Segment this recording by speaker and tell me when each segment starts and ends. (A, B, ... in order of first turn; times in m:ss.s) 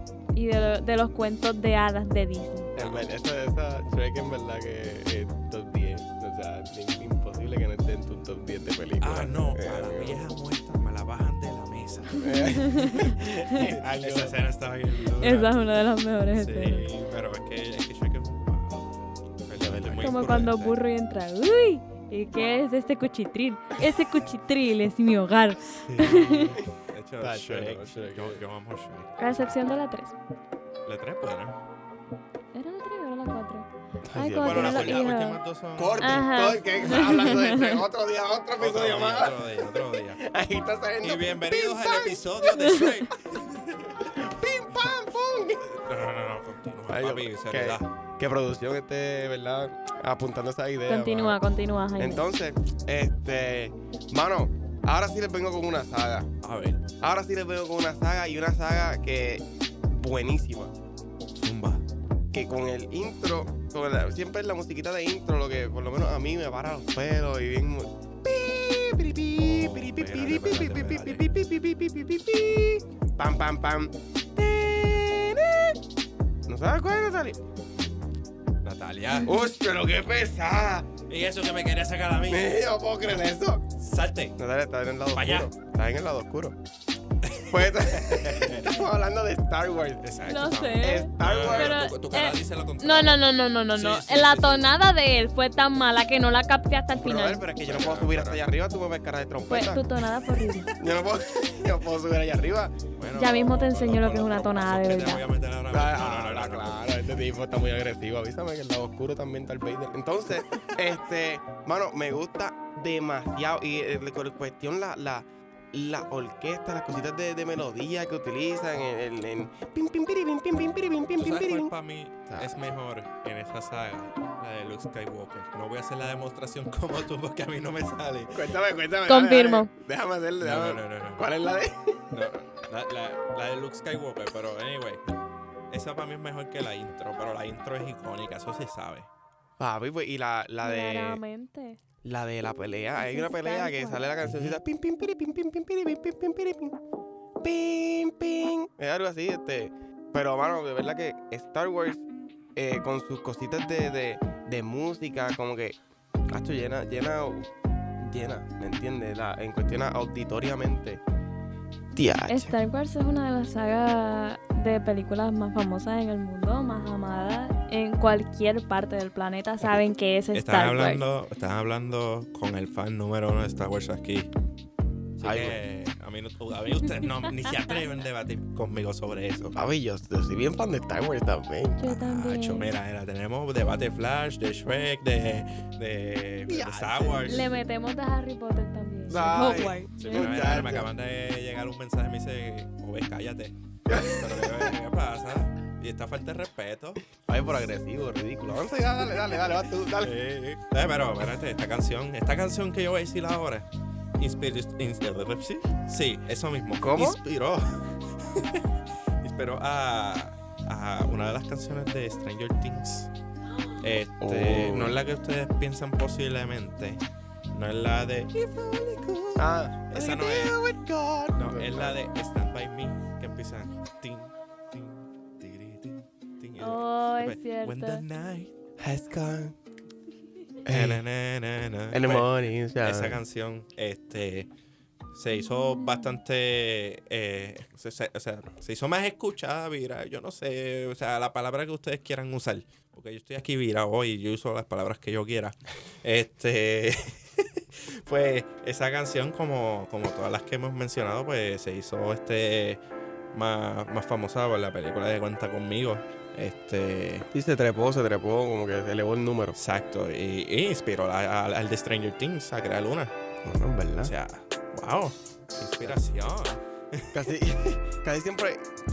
0:00.3-0:02.7 A
0:02.8-0:10.2 B
0:02.8-0:03.1 C
0:09.0-0:15.6 C
0:12.2-0:14.3 B
0:12.3-0:13.2 A
0:15.2-0:16.9 A
0:16.3-0:20.8 C
0:19.6-0:20.2 B
0:20.0-0:26.6 A
0:25.9-0:28.4 B
0:26.9-0:29.5 C
0:29.2-0:30.2 A
0:30.9-0:31.6 C
0:32.5-0:35.4 A
0:34.1-0:35.1 B
0:34.4-0:36.2 C
0:35.8-0:42.8 B
0:36.0-0:37.8 A
0:38.6-0:40.2 C
0:41.0-0:44.2 C
0:42.5-0:42.9 A
0:44.0-0:45.8 B
0:45.8-0:47.9 C
0:46.9-0:51.4 B
0:50.9-0:52.2 A
0:52.0-0:56.3 B
0:56.4-0:56.9 C
0:57.0-1:00.7 B
1:01.4-1:01.8 C
1:02.3-1:15.8 B
1:09.4-1:11.3 C
1:16.5-1:17.4 B
1:18.6-1:19.4 C
1:19.1-1:19.5 A
1:19.3-1:21.0 B
1:21.1-1:22.6 C
1:22.3-1:23.7 B
1:23.8-1:24.4 C
1:24.4-1:26.6 B
1:25.1-1:25.5 C
1:27.2-1:28.8 C
1:27.5-1:30.1 B
1:30.0-1:34.7 C
1:30.3-1:37.4 A
1:30.8-1:31.8 B
1:37.0-1:39.8 B
1:37.6-1:38.4 C
1:39.5-1:40.7 A
1:40.8-1:42.8 B
1:43.0-1:47.0 C
1:43.2-1:45.2 A
1:45.7-2:01.7 B
2:01.2-2:08.6 C
2:02.3-2:02.6 B
2:08.3-2:12.3 B
2:09.1-2:09.7 A
2:10.4-2:11.3 C
2:12.1-2:15.0 C
2:15.7-2:19.1 C
2:19.6-2:21.2 B
2:20.6-2:21.8 A
2:22.0-2:26.8 B
2:23.0-2:24.0 A
2:24.2-2:24.6 C
2:27.4-2:35.8 B
2:36.3-2:37.5 B
2:38.0-2:41.0 B
2:41.9-2:42.6 B
2:42.3-2:51.0 A
2:50.3-2:54.3 C
2:55.2-2:59.6 C
2:55.2-2:55.6 B
2:59.6-3:01.8 B
3:01.8-3:02.7 A
3:01.8-3:07.5 C
3:06.5-3:07.5 B
3:07.3-3:10.4 A
3:09.1-3:10.9 B
3:10.0-3:17.6 C
3:13.9-3:14.8 B
3:17.2-3:20.2 B
3:18.6-3:19.4 C
3:20.0-3:33.1 C
3:26.8-3:27.2 B
3:33.8-3:40.6 C
3:34.2-3:35.0 B
3:39.4-3:42.0 B
3:41.3-3:48.6 C
3:46.6-3:48.0 A
3:48.8-3:49.6 B
3:50.6-3:51.0 B
3:50.7-3:54.5 C
3:51.9-3:53.2 B
3:55.1-4:12.8 C
4:13.3-4:17.3 C
4:17.3-4:19.6 B
4:19.6-4:23.1 C
4:23.4-4:24.1 B
4:24.0-4:27.3 C
4:27.1-4:28.7 B